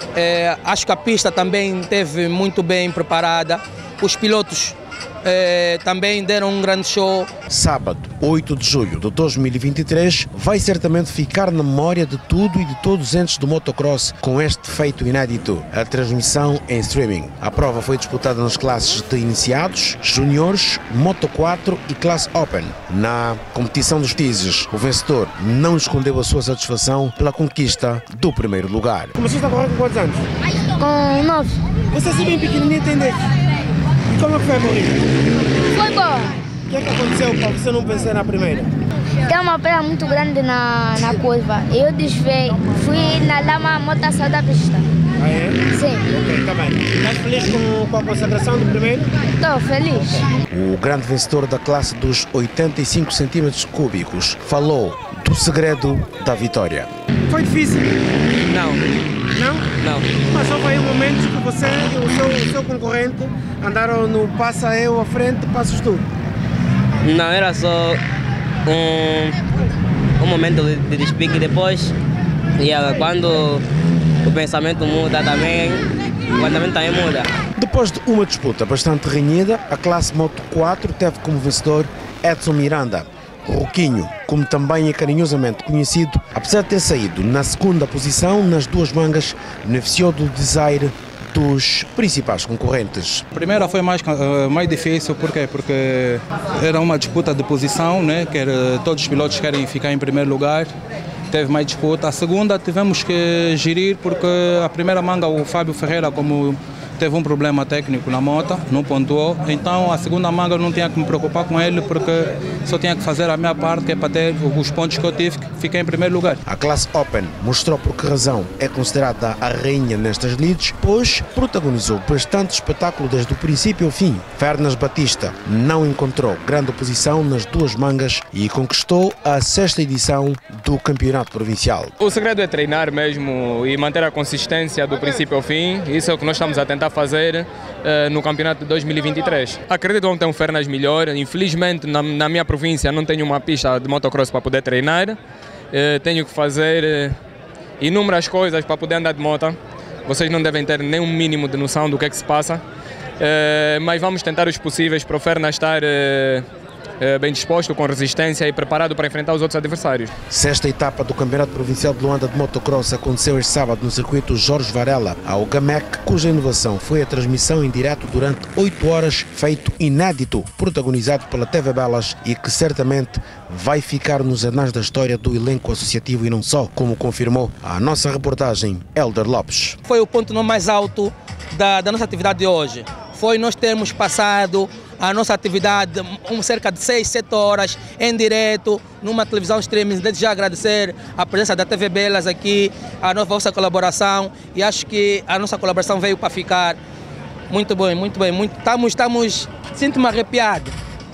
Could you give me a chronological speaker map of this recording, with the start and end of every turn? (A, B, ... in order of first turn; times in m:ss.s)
0:00.1-0:07.3 A
0:07.5-0:29.2 B
0:29.2-0:30.2 C
0:30.8-0:31.5 D
0:31.9-0:33.2 C
0:34.1-0:35.0 C
0:35.7-0:36.3 D
0:36.6-0:38.7 C
0:39.2-0:44.8 D
0:45.2-0:49.1 C
0:45.7-0:46.1 D
0:49.4-0:50.3 D
0:50.5-0:56.9 B
0:57.3-0:57.8 C
0:58.5-0:58.8 E
0:59.3-1:06.0 C
1:07.0-1:08.0 E
1:08.6-1:09.4 E
1:10.2-1:11.9 E
1:12.6-1:13.6 E
1:14.2-1:17.3 E
1:17.5-1:33.2 B
1:33.3-1:40.7 F
1:41.3-1:56.4 F
1:56.4-2:11.9 B
2:12.0-2:25.2 G
2:25.7-2:27.2 G
2:27.8-2:32.6 G
2:33.2-2:36.4 G
2:37.0-2:40.1 G
2:40.3-2:59.8 B
2:59.9-3:16.8 A
3:17.5-3:20.8 A